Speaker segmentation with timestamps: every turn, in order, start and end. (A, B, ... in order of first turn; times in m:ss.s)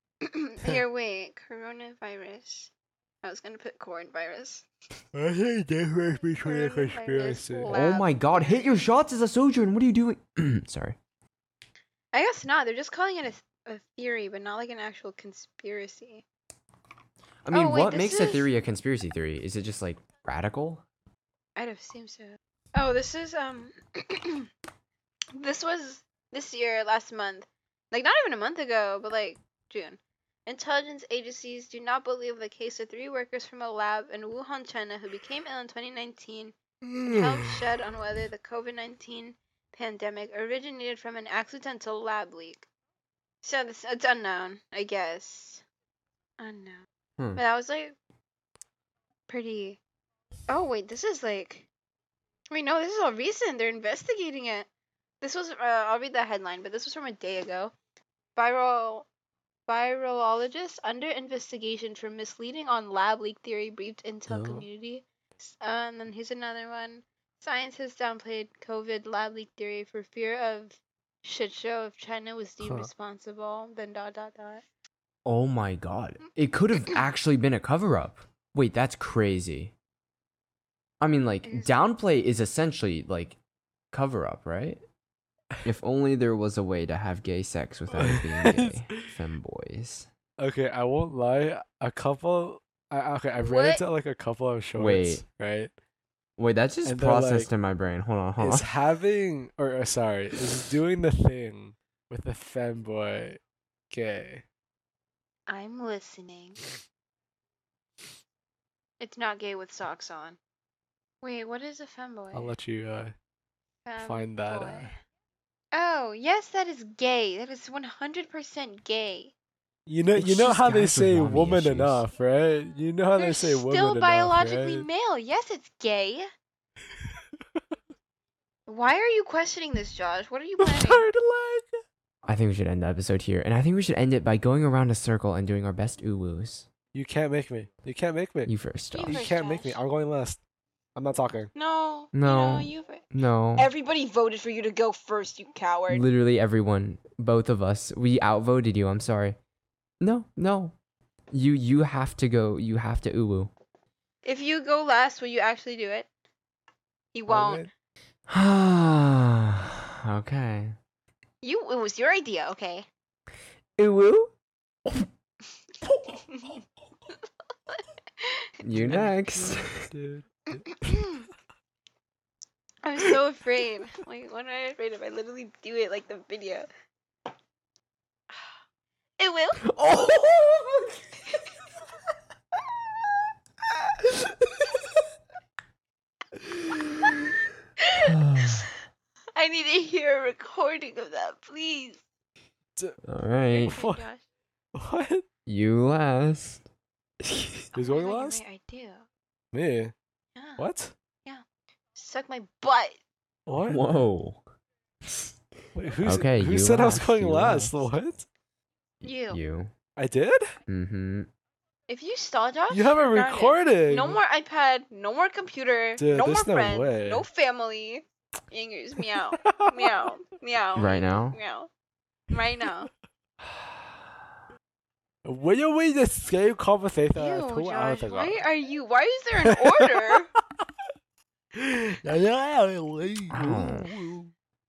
0:00.2-0:02.7 A
0:03.2-0:04.7 A
0:05.1-0:07.7 B
0:06.4-0:08.8 A
0:07.7-0:11.0 C
0:12.1-0:16.2 A
0:17.4-0:20.8 C
0:17.5-0:18.5 A
0:21.6-0:24.5 A
0:25.4-0:42.7 A
0:36.9-0:37.6 B
0:43.4-0:45.6 A
0:46.4-0:46.8 A
0:47.4-0:48.0 A
0:49.3-0:49.8 A
0:50.5-0:51.7 A
0:52.5-0:54.7 A
0:55.2-0:57.7 A
0:58.4-0:59.1 A
0:59.7-1:14.6 A
1:04.3-1:04.7 B
1:12.6-1:12.9 B
1:15.2-1:19.7 C
1:21.0-1:23.4 C
1:21.5-1:21.7 A
1:23.9-1:24.8 C
1:25.6-1:30.1 C
1:28.0-1:29.0 B
1:30.4-1:35.7 B
1:33.4-1:33.8 A
1:34.8-1:35.2 C
1:36.4-1:38.7 C
1:36.8-1:37.5 B
1:38.4-1:44.4 B
1:45.5-1:46.6 A
1:49.0-1:50.4 A
1:51.2-1:52.6 A
1:52.3-1:53.2 B
1:53.9-1:55.0 A
1:54.0-1:54.9 B
1:55.7-1:59.3 A
1:59.9-2:04.9 B
2:00.2-2:02.0 C
2:03.2-2:06.3 A
2:08.7-2:11.1 A
2:10.6-2:11.8 B
2:12.2-2:16.7 C
2:16.9-2:18.5 B
2:18.5-2:19.2 C
2:18.9-2:19.8 A
2:19.1-2:20.4 B
2:21.0-2:21.5 B
2:21.6-2:26.1 A
2:22.1-2:23.7 C
2:25.9-2:29.4 C
2:30.0-2:30.8 C
2:31.3-2:33.5 C
2:34.2-2:36.1 A
2:37.1-2:37.6 A
2:37.3-2:37.7 B
2:38.3-2:40.8 C
2:41.4-2:42.9 A
2:43.8-2:44.4 C
2:46.3-2:46.6 A
2:47.7-2:48.5 A
2:48.6-2:49.9 C
2:48.7-2:51.0 B
2:50.5-2:51.3 A
2:52.8-2:56.7 A
2:59.2-2:59.7 A
2:59.6-3:01.0 C
3:04.0-3:04.6 C
3:07.8-3:08.7 A
3:08.0-3:08.7 C
3:09.4-3:12.0 A
3:13.0-3:13.8 C
3:13.5-3:14.2 A
3:13.7-3:14.0 B
3:14.7-3:15.2 B
3:15.5-3:16.6 C
3:17.2-3:17.6 C
3:17.7-3:19.1 A
3:17.8-3:18.4 B
3:19.5-3:19.9 B
3:20.4-3:20.7 A
3:20.6-3:20.9 B
3:22.0-3:23.0 A
3:23.5-3:23.8 B
3:23.6-3:24.4 C
3:25.8-3:28.3 B
3:26.0-3:27.8 C
3:29.0-3:29.4 A
3:29.3-3:29.7 C
3:30.0-3:30.6 B
3:30.7-3:31.3 C
3:31.9-3:41.7 A
3:32.7-3:34.2 B
3:36.0-3:37.3 B
3:39.0-3:40.1 B
3:40.8-3:41.4 C
3:42.3-3:42.9 A
3:43.5-3:43.8 C
3:45.2-3:48.4 B
3:47.2-3:50.3 A
3:49.4-3:50.7 B
3:51.6-3:54.3 B
3:53.3-3:53.9 C